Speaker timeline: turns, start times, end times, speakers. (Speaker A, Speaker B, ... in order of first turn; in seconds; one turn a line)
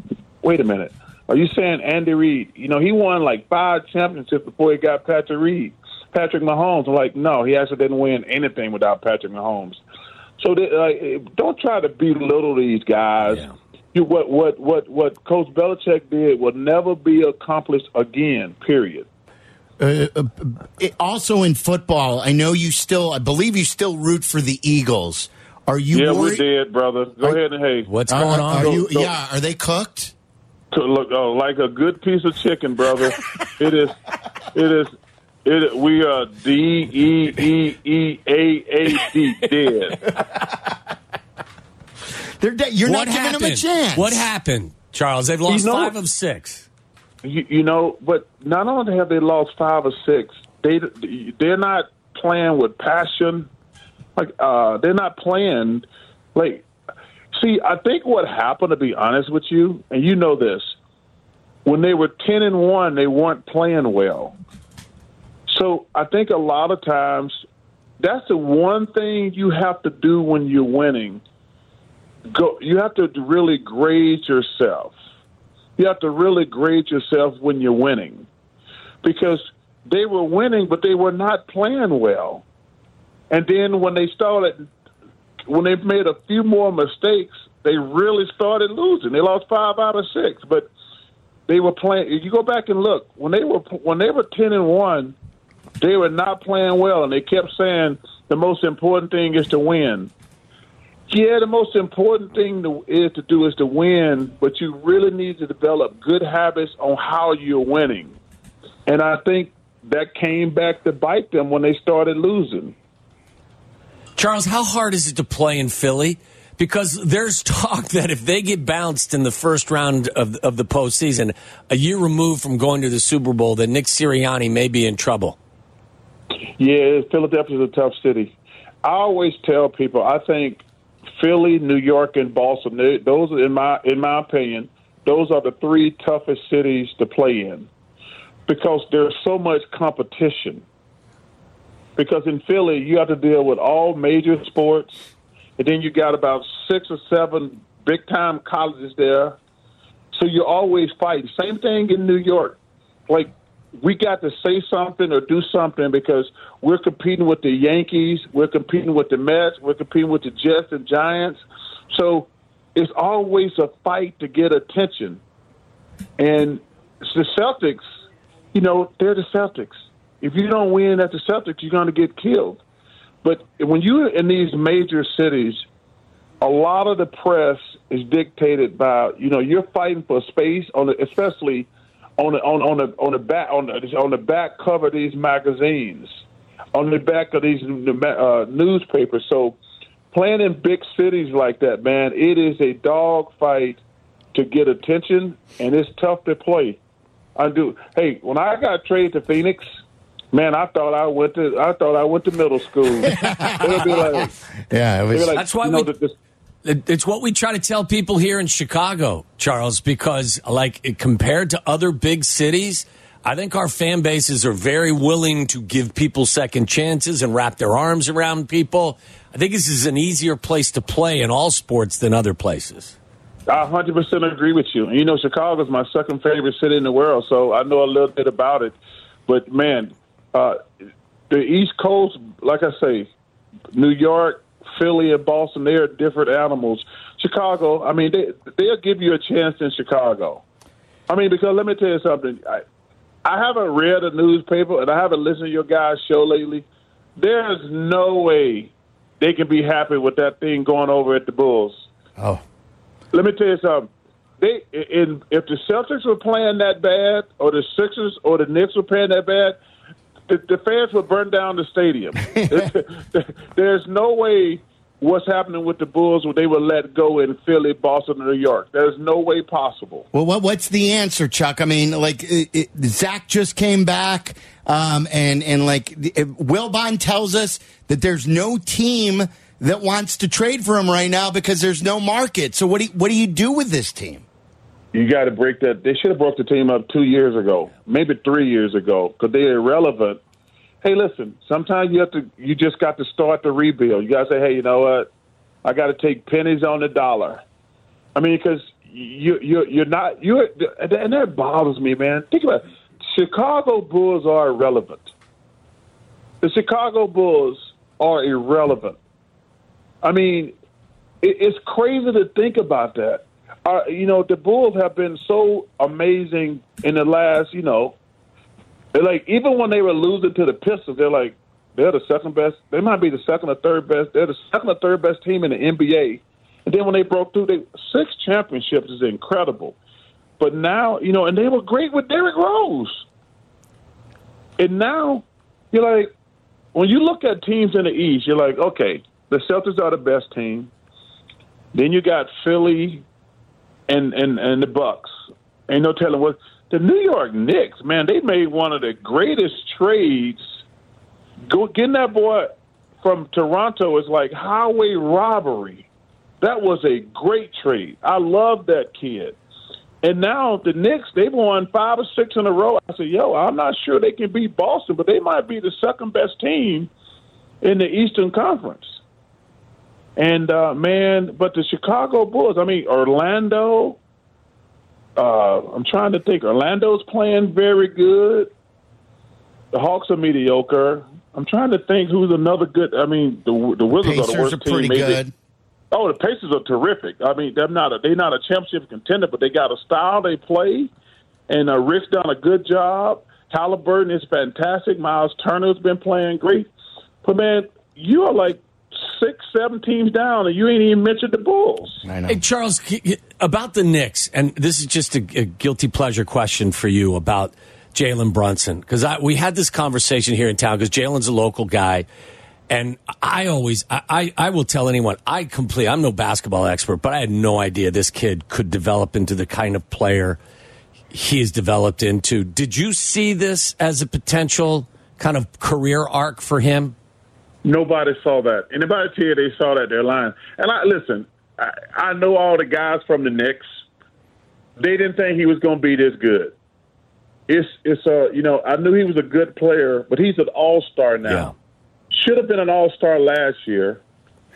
Speaker A: 0.4-9.8
Speaker A: 10.4-19.1
Speaker B: 19.8-26.4
Speaker A: 25.9-27.9
Speaker C: 27.9-28.8
Speaker B: 28.1-30.1
Speaker A: 28.5-29.1
Speaker A: 30.7-34.0
Speaker A: 34.5-34.9
Speaker A: 35.5-40.0
Speaker B: 42.4-44.3
Speaker C: 42.9-46.7
Speaker A: 45.5-46.0
Speaker A: 47.2-53.5
Speaker A: 54.2-56.6
Speaker A: 57.3-60.8
Speaker A: 61.6-64.3
Speaker A: 65.5-67.4
Speaker A: 68.0-71.2
Speaker A: 72.3-75.0
Speaker A: 75.8-78.3
Speaker A: 79.0-82.4
Speaker A: 83.3-84.7
Speaker A: 85.5-90.7
Speaker A: 91.5-95.2
Speaker A: 95.8-100.1
Speaker A: 101.1-108.2
Speaker A: 108.9-112.8
Speaker C: 114.2-125.4
Speaker A: 126.6-130.7
Speaker A: 131.2-137.7
Speaker A: 138.5-140.6
Speaker A: 142.0-145.1
Speaker A: 145.6-149.4
Speaker A: 150.1-165.2
Speaker A: 166.2-167.8
Speaker A: 168.5-172.6
Speaker A: 173.2-175.6
Speaker A: 176.4-186.1
Speaker A: 186.7-189.6
Speaker A: 190.1-193.8
Speaker A: 194.3-196.8
Speaker A: 197.4-199.6
Speaker A: 200.3-204.3
Speaker B: 203.0-205.4
Speaker A: 205.1-206.1
Speaker C: 205.3-205.9
Speaker C: 206.7-222.9
Speaker A: 223.5-228.8
Speaker A: 229.3-230.6
Speaker A: 231.3-233.1
Speaker A: 233.7-240.4
Speaker A: 241.1-242.6
Speaker A: 243.2-246.7
Speaker A: 247.2-251.9
Speaker A: 253.1-253.9
Speaker A: 254.4-259.6
Speaker A: 260.3-270.1
Speaker B: 270.1-284.2
Speaker A: 284.9-290.2
Speaker A: 290.8-295.1
Speaker A: 295.6-297.4
Speaker A: 298.1-305.1
Speaker A: 306.4-309.0
Speaker A: 310.0-310.5
Speaker A: 311.2-318.0
Speaker A: 318.9-329.8
Speaker A: 330.4-333.0
Speaker A: 334.6-336.1
Speaker A: 336.7-340.7
Speaker A: 341.7-343.1
Speaker A: 343.9-345.1
Speaker A: 345.7-350.4
Speaker A: 351.5-355.9
Speaker A: 356.4-359.4
Speaker A: 360.0-366.9
Speaker A: 367.6-369.0
Speaker A: 370.2-374.0
Speaker A: 375.2-378.5
Speaker A: 379.7-385.2
Speaker B: 383.9-385.3
Speaker A: 385.9-390.9
Speaker A: 391.5-396.7
Speaker A: 397.2-402.0
Speaker B: 402.1-402.4
Speaker C: 402.3-412.1
Speaker C: 412.7-420.4
Speaker C: 421.1-426.9
Speaker A: 427.6-433.6
Speaker A: 434.8-436.5
Speaker A: 437.5-441.5
Speaker C: 441.3-441.5
Speaker A: 442.1-444.0